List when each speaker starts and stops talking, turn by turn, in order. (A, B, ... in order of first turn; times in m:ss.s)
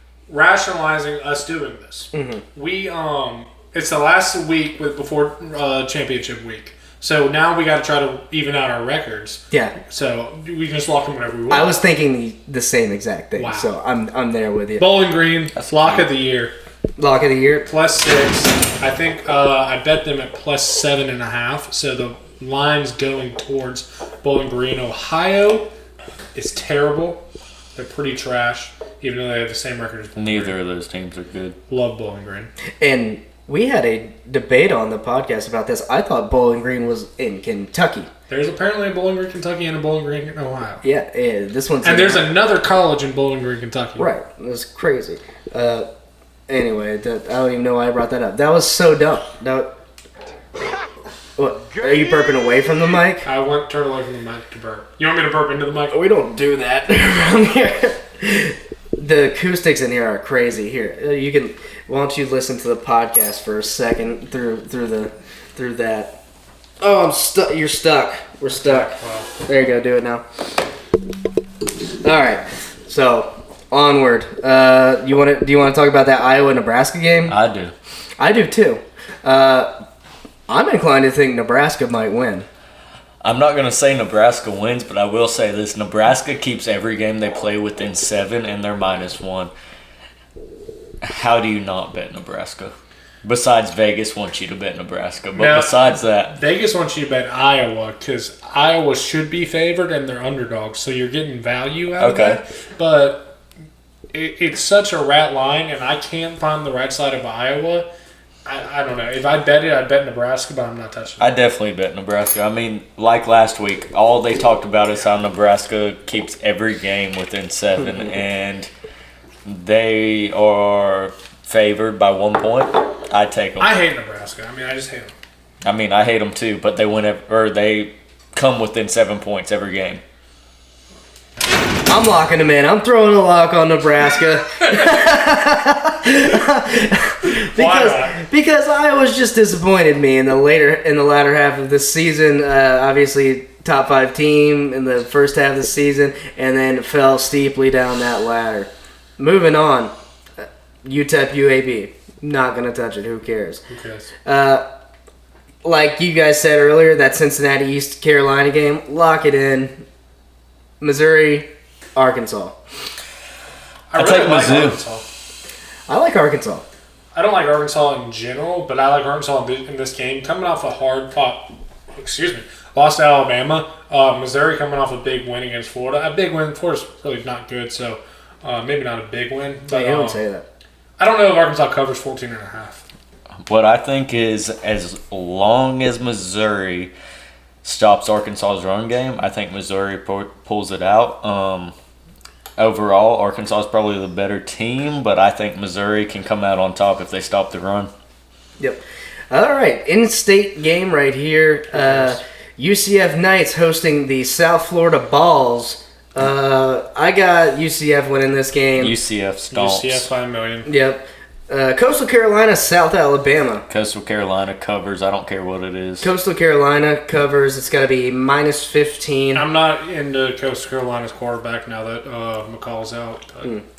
0:00.3-0:11.8 A
0:02.1-0:02.4 B
0:09.5-0:09.8 B
0:11.5-0:14.9 B
0:13.4-0:13.7 A
0:14.8-0:16.6 A
0:15.6-0:16.1 C
0:17.0-0:17.7 B
0:17.7-0:25.7 A
0:26.4-0:27.2 A
0:27.8-0:30.6 A
0:30.2-0:31.6 C
0:31.7-0:32.5 A
0:32.8-0:38.1 B
0:38.3-0:40.8 A
0:40.8-0:42.3 B
0:41.8-0:44.1 A
0:44.0-0:45.9 B
0:46.5-0:49.7 B
0:51.4-0:53.3 B
0:53.2-0:56.0 A
0:55.9-1:06.2 B
1:06.8-1:08.9 B
1:08.5-1:09.3 A
1:09.4-1:10.2 B
1:12.0-1:17.4 B
1:17.3-1:17.8 C
1:18.2-1:19.7 B
1:20.5-1:22.5 B
1:23.2-1:29.5 C
1:31.0-1:36.4 C
1:35.4-1:43.3 A
1:42.0-1:42.4 C
1:44.1-1:47.9 A
1:48.4-1:51.3 A
1:51.2-1:58.7 C
1:59.4-2:03.8 C
2:03.6-2:05.1 A
2:05.6-2:10.0 C
2:11.9-2:33.6 B
2:17.6-2:18.2 A
2:33.7-2:34.1 A
2:34.2-2:34.7 B
2:35.6-2:39.8 B
2:40.8-2:42.6 B
2:43.9-2:45.0 A
2:43.9-2:44.8 C
2:45.9-2:46.6 B
2:47.1-3:00.2 A
2:59.7-3:00.5 B
3:01.0-3:02.8 A
3:03.4-3:06.9 C
3:07.6-3:11.7 C
3:12.6-3:17.9 C
3:18.6-3:28.9 B
3:21.7-3:22.2 A
3:28.8-3:30.1 C
3:29.5-3:30.7 A
3:30.6-3:33.6 B
3:33.7-3:36.1 C
3:36.0-3:39.5 B
3:39.3-3:43.5 A